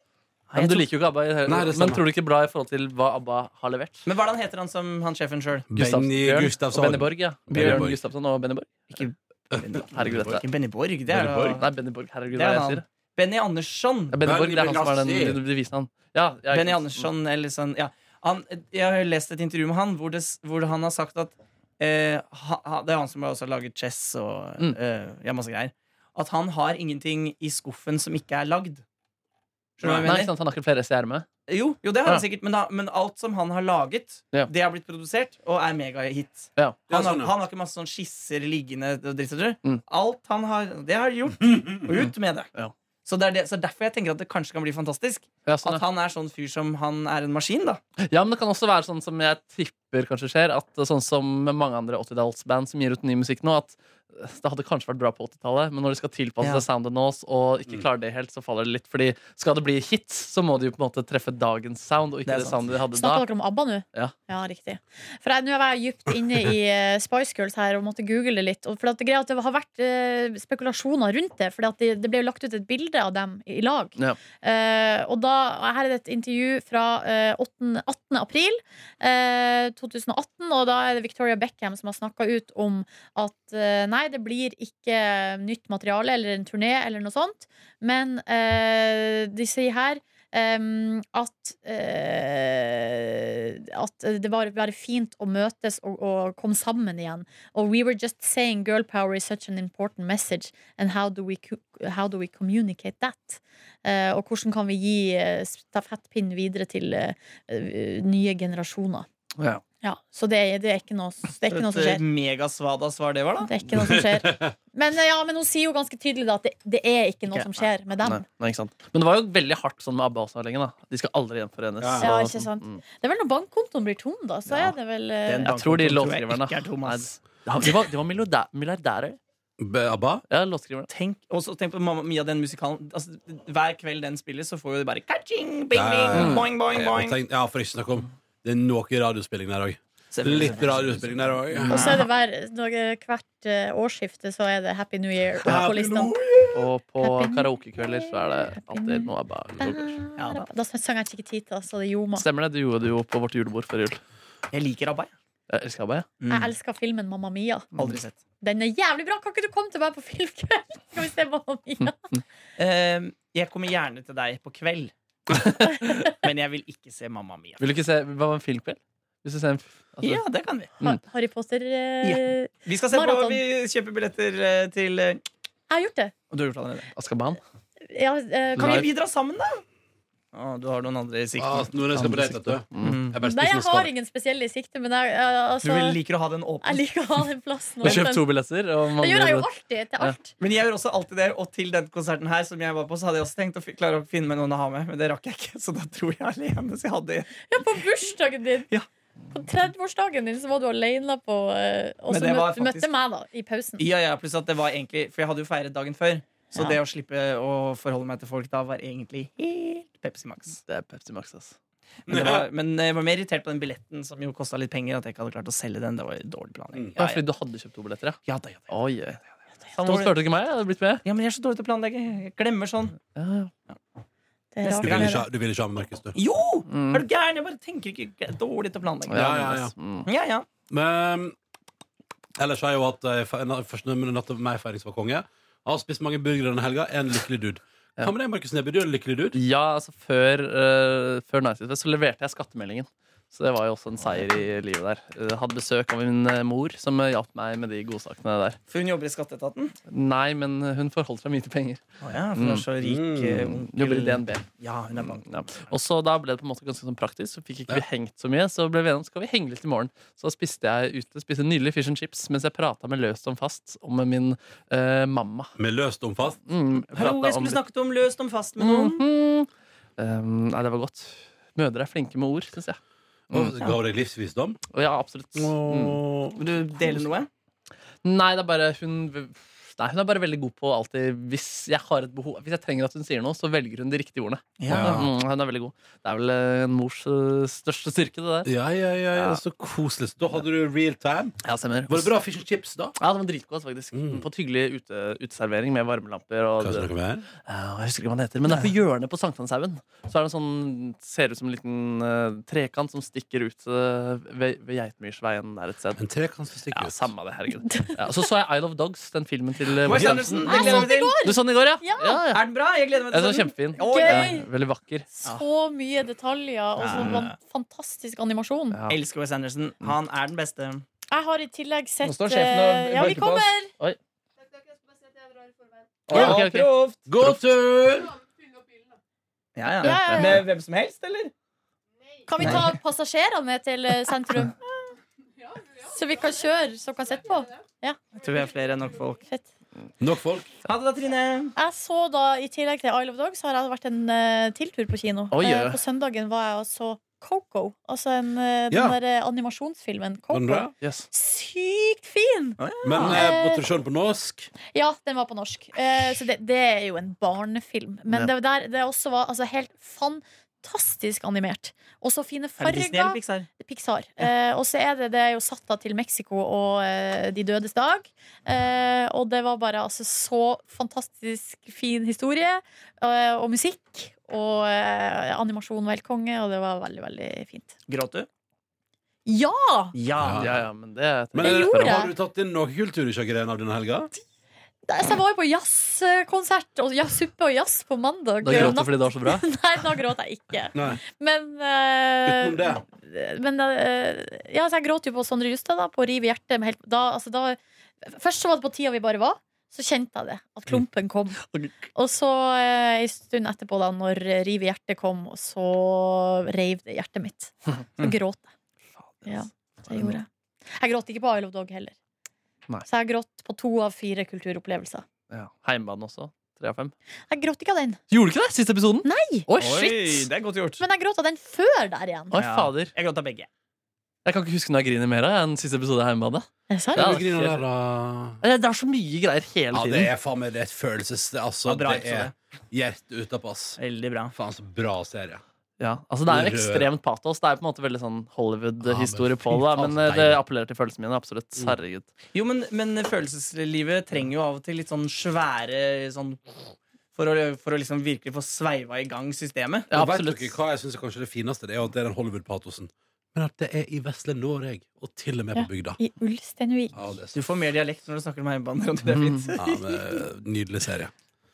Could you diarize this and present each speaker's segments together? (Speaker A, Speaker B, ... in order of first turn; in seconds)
Speaker A: 0.5-0.9, 4.1-5.7, 7.5-7.8, 8.9-11.7, 12.3-14.2, 16.5-28.8, 29.8-30.3, 31.5-42.5, 43.0-47.8, 62.3-62.6, 111.5-113.5, 125.3-127.1, 130.9-137.2, 140.1-142.1, 145.4-146.5, 150.2-150.5, 154.5-155.1, 156.2-156.5, 157.8-158.2, 162.6-167.6, 170.0-170.8, 172.0-175.2, 176.3-176.9, 178.6-179.6, 180.3-181.7, 182.8-183.2, 185.6-186.8, 190.4-197.5, 202.1-202.9, 203.8-210.6, 212.1-217.2, 218.3-218.7, 219.8-220.1, 221.1-223.0, 224.6-225.2, 226.2-229.4, 230.1-230.5, 248.7-249.8, 252.0-255.5, 266.9-269.0, 276.4-277.3, 284.6-285.1, 309.8-311.2, 312.3-314.4, 316.8-317.3, 318.9-320.8, 322.0-323.5, 326.1-327.0, 329.6-331.3, 332.4-332.7, 338.1-339.2, 340.6-341.6, 352.6-353.2, 362.6-363.5, 377.9-378.3, 379.9-380.5, 419.6-420.8, 422.3-423.5, 431.7-432.3, 433.8-434.3, 442.3-449.9, 457.3-460.1
Speaker B: 0.5-4.1, 5.8-9.0, 9.9-10.4, 11.5-12.8, 14.1-17.1, 30.0-31.3, 45.5-45.8, 48.0-63.3, 118.0-122.8, 125.4-129.2, 130.3-130.9, 136.1-136.5, 141.6-141.8, 146.5-150.0, 152.2-154.0, 155.5-156.1, 165.3-166.0, 167.6-170.2, 176.9-177.4, 178.6-178.9, 181.9-183.0, 187.8-189.5, 210.7-211.6, 217.0-218.2, 218.7-219.2, 219.7-221.0, 223.2-223.5, 226.7-227.0, 229.1-230.1, 239.3-248.6, 249.9-251.8, 252.4-252.7, 253.7-254.4, 255.1-265.5, 266.5-267.6, 268.6-272.8, 273.3-273.7, 274.7-276.0, 278.0-288.5, 291.4-292.1, 293.0-306.0, 306.7-312.4, 313.1-315.1, 326.1-327.4, 329.8-330.4, 345.3-345.8, 350.8-351.1, 380.3-382.1, 388.4-389.5, 409.0-410.2, 415.3-416.9, 418.1-420.3, 422.3-422.9, 424.2-427.6, 428.4-430.1, 435.8-442.1, 449.9-450.6, 459.1-459.4
Speaker C: 1.5-2.0, 5.7-8.0, 9.5-10.4, 11.1-11.6, 14.2-15.4, 29.8-30.1, 36.9-37.3, 113.7-114.5, 121.8-122.1, 129.6-130.2, 135.7-141.8, 145.4-146.1, 181.4-183.9, 212.1-212.5, 224.8-226.2, 229.1-229.7, 230.7-231.4, 232.4-239.4, 252.8-253.6, 265.6-266.4, 273.3-274.6, 275.4-276.4, 284.7-285.1, 288.5-291.4, 291.9-293.0, 293.9-294.2, 296.6-297.3, 306.0-307.1, 309.9-310.3, 326.1-326.4, 327.1-328.1, 340.0-340.5, 348.7-349.0, 350.3-350.7, 352.8-354.5, 380.2-380.6, 381.3-384.1, 388.5-388.8, 390.7-391.0, 392.2-392.8, 426.9-428.4, 429.7-433.8, 434.3-435.4, 436.3-436.9, 438.8-440.4, 449.9-456.0, 456.9-457.4, 459.6-461.1
Speaker D: 62.9-109.1, 109.8-112.0, 113.4-118.2, 122.0-125.5, 141.7-146.2, 147.0-149.1, 149.6-152.2, 156.3-157.7, 158.4-162.0, 170.8-173.4, 175.7-176.1, 177.9-178.9, 183.2-186.0, 186.6-188.3, 189.0-190.3, 197.5-198.7, 199.3-203.8, 224.5-225.2, 307.7-308.0, 310.5-312.2, 313.8-314.5, 315.1-318.8, 321.1-323.7, 329.8-330.4, 332.3-334.6, 335.8-338.0, 341.6-353.6, 354.7-377.7, 379.3-379.9, 381.4-382.1, 384.9-408.5, 409.2-411.9, 412.9-415.1, 417.3-418.0, 419.1-419.5, 420.8-422.3, 426.7-427.2, 455.6-456.9